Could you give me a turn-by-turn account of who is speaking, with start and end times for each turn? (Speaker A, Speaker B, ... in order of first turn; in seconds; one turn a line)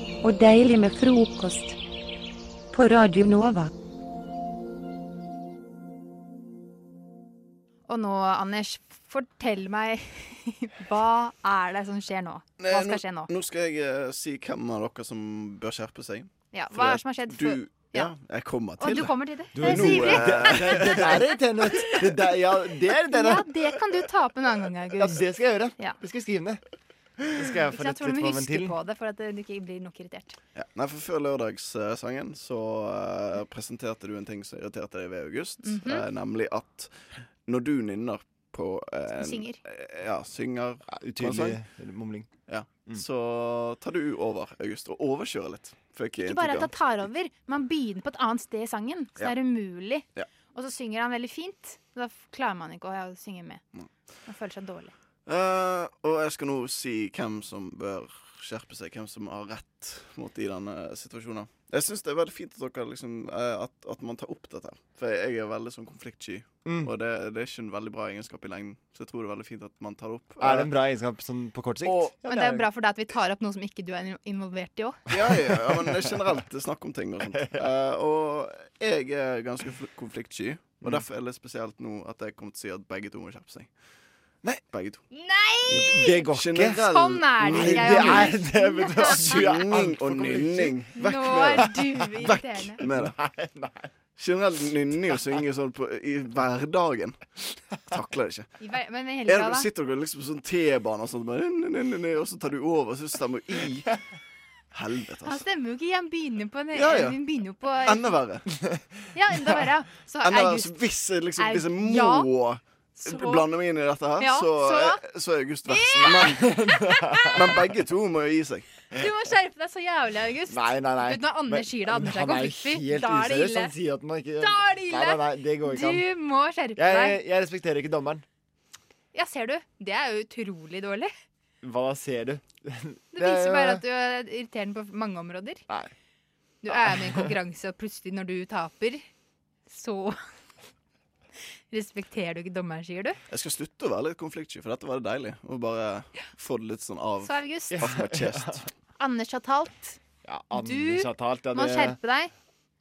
Speaker A: 0.2-1.8
Speaker A: 2.7-3.7
Speaker B: 7.9-13.3
Speaker C: 12.6-21.2
Speaker B: 16.5-18.1
Speaker B: 18.8-21.3
Speaker D: 19.6-23.5
Speaker B: 23.1-25.2
Speaker D: 25.0-26.6
Speaker D: 27.4-28.8
Speaker B: 27.6-30.4
Speaker C: 30.6-41.6
Speaker B: 35.6-36.0
Speaker B: 39.2-39.6
Speaker D: 40.9-42.3
Speaker C: 42.5-46.7
Speaker B: 46.2-53.6
Speaker B: 54.3-54.9
Speaker C: 55.3-70.7
Speaker D: 66.7-66.9
Speaker D: 70.4-72.7
Speaker C: 71.8-72.2
Speaker B: 72.3-75.0
Speaker C: 75.1-83.7
Speaker C: 84.4-85.0
Speaker B: 85.1-86.0
Speaker C: 85.7-88.4
Speaker D: 85.7-86.8
Speaker B: 86.7-89.7
Speaker D: 87.4-90.8
Speaker C: 89.0-93.2
Speaker B: 91.0-92.8
Speaker D: 92.8-93.9
Speaker C: 94.2-97.2
Speaker C: 97.9-98.5
Speaker B: 98.6-99.7
Speaker C: 99.3-104.0
Speaker C: 104.7-105.5
Speaker B: 105.2-108.1
Speaker C: 106.7-108.5
Speaker B: 109.1-110.7
Speaker C: 110.2-116.4
Speaker B: 111.4-112.3
Speaker B: 113.0-113.5
Speaker B: 114.2-115.0
Speaker B: 115.7-117.4
Speaker D: 115.9-117.6
Speaker C: 117.3-118.7
Speaker B: 118.9-123.7
Speaker D: 120.5-126.0
Speaker B: 124.4-127.2
Speaker D: 126.8-128.2
Speaker B: 129.1-131.1
Speaker D: 131.6-133.8
Speaker B: 133.2-135.6
Speaker B: 136.6-139.1
Speaker B: 139.7-140.2
Speaker B: 141.7-143.2
Speaker C: 143.3-148.7
Speaker B: 147.2-147.8
Speaker D: 147.8-148.6
Speaker B: 149.0-150.0
Speaker D: 150.2-152.0
Speaker B: 150.5-152.3